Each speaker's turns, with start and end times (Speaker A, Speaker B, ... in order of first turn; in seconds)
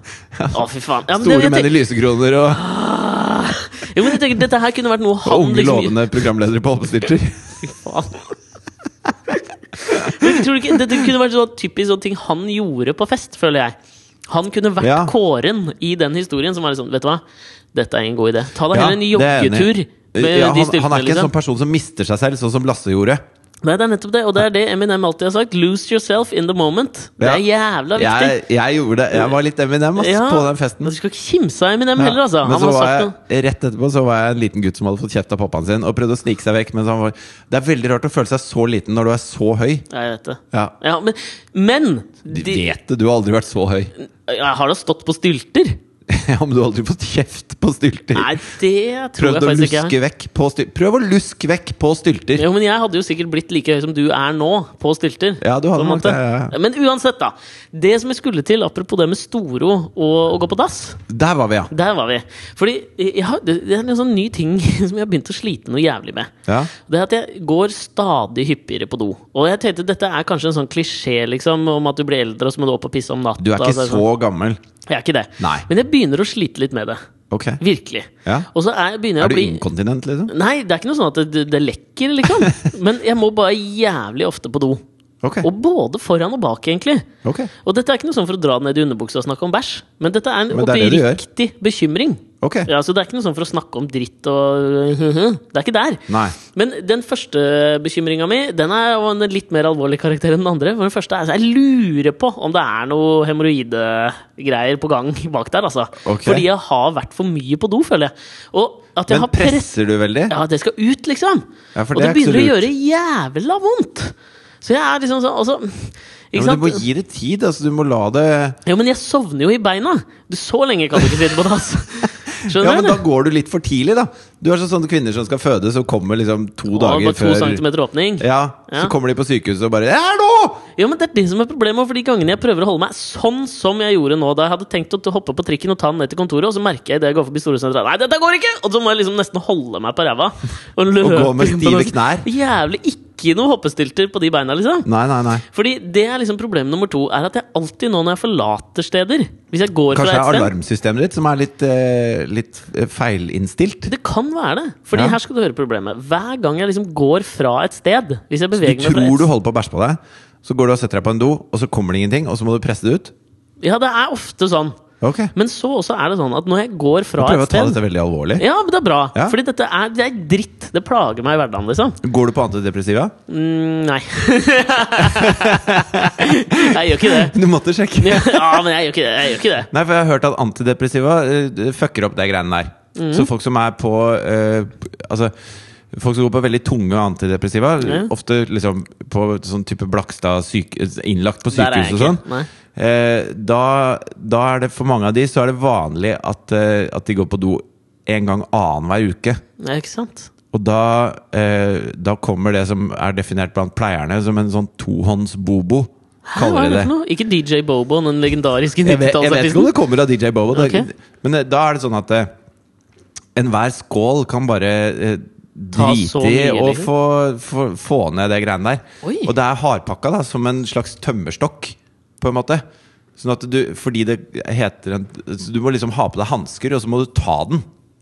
Speaker A: 0.3-2.6, 5.2-7.5, 9.9-10.3, 14.8-15.1, 18.7-23.2, 27.2-30.9, 32.0-39.9, 42.3-43.9, 46.1-48.4, 49.2-52.4, 55.4-56.5, 61.1-61.7, 66.5-66.7, 73.4-74.6, 75.4-75.7, 77.3-77.6, 79.2-80.3, 85.2-85.5, 87.2-87.5, 90.5-91.2, 92.4-92.7, 96.1-96.3, 106.0-106.4, 109.1-110.3, 111.7-112.7, 116.3-118.6, 122.3-127.6, 128.2-130.6, 141.0-142.3, 144.8-145.4, 149.9-153.9, 154.9-155.2, 158.6-163.1, 165.0-165.3, 167.2-168.4, 172.0-173.1, 175.0-178.7, 179.7-185.3, 185.9-192.2, 192.7-199.4, 200.5-206.9, 208.8-212.3, 213.3-222.6, 223.2-227.6
Speaker B: 0.5-1.7, 2.5-6.0, 7.6-8.3, 9.8-13.7, 14.3-17.2, 17.7-21.3, 23.6-28.4, 30.0-33.1, 39.9-42.7, 44.0-45.8, 48.1-49.9, 52.4-61.0, 61.7-74.0, 74.9-77.0, 77.6-79.6, 80.3-84.8, 85.4-87.1, 87.6-109.7, 110.3-116.8, 118.7-123.0, 126.7-128.9, 130.8-144.9, 145.5-150.5, 153.9-159.3, 163.6-164.8, 165.3-167.8, 168.4-172.0, 173.3-177.3, 178.0-179.7, 182.9-183.3, 187.8-188.1, 191.5-192.5, 199.6-200.3, 206.3-209.7, 210.5-210.9, 215.7-216.9, 219.0-219.3